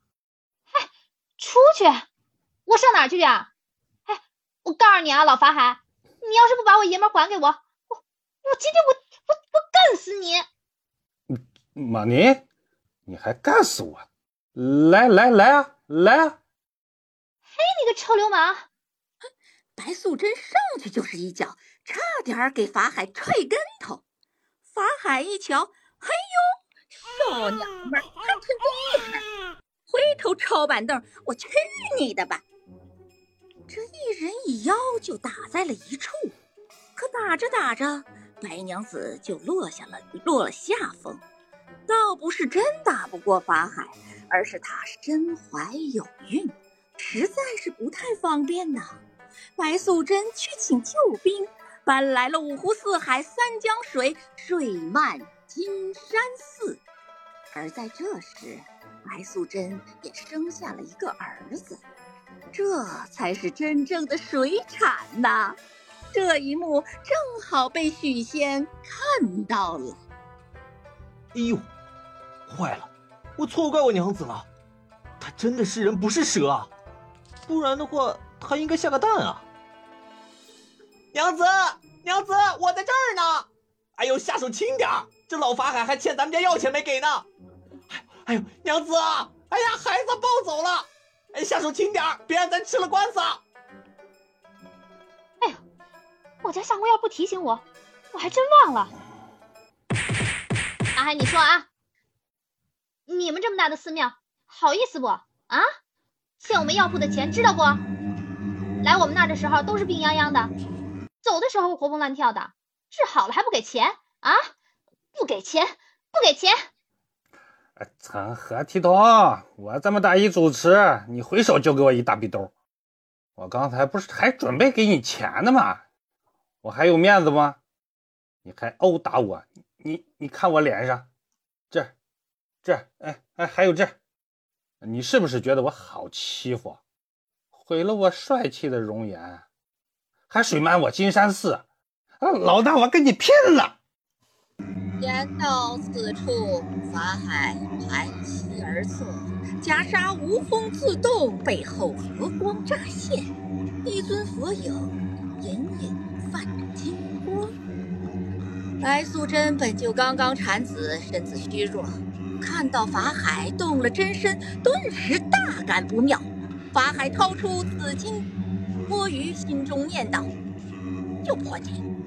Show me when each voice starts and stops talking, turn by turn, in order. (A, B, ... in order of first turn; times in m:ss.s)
0:00.7-0:02.1 A
0:02.7-0:03.5 A
0:04.1-0:10.4 A
0:11.3-0:12.4 B
0:13.1-0:16.4 B
0:17.5-0:18.7 A
0:19.8-0:24.0 C
0:24.7-0:26.5 C
0:27.0-0:29.2 C
0:29.9-0:32.4 C
0:33.7-0:36.3 C
0:37.0-0:41.2 C
0:41.9-0:49.0 C
0:49.6-0:56.8 C
0:57.5-1:01.8 C
1:02.5-1:05.6 C
1:06.1-1:10.0 C
1:11.3-1:11.7 D
1:12.5-1:14.5 D
1:15.2-1:16.7 D
1:17.5-1:19.5 D
1:21.1-1:27.3 D
1:27.9-1:33.4 D
1:36.4-1:38.9 A
1:41.0-1:41.7 A
1:43.1-1:45.7 A
1:46.4-1:47.8 A
1:48.8-1:50.5 A
1:51.2-1:54.5 A
1:55.1-1:56.6 A
1:57.8-2:02.5 B
2:03.4-2:05.8 B
2:06.6-2:07.6 B
2:08.4-2:11.1 B
2:12.6-2:14.0 B
2:14.8-2:16.8 B
2:17.5-2:19.4 B
2:20.3-2:21.6 B
2:22.2-2:23.8 B
2:25.0-2:33.3 C
2:33.8-2:37.6 C
2:38.8-2:48.3 C
2:48.9-2:50.3 C
2:51.2-2:51.8 C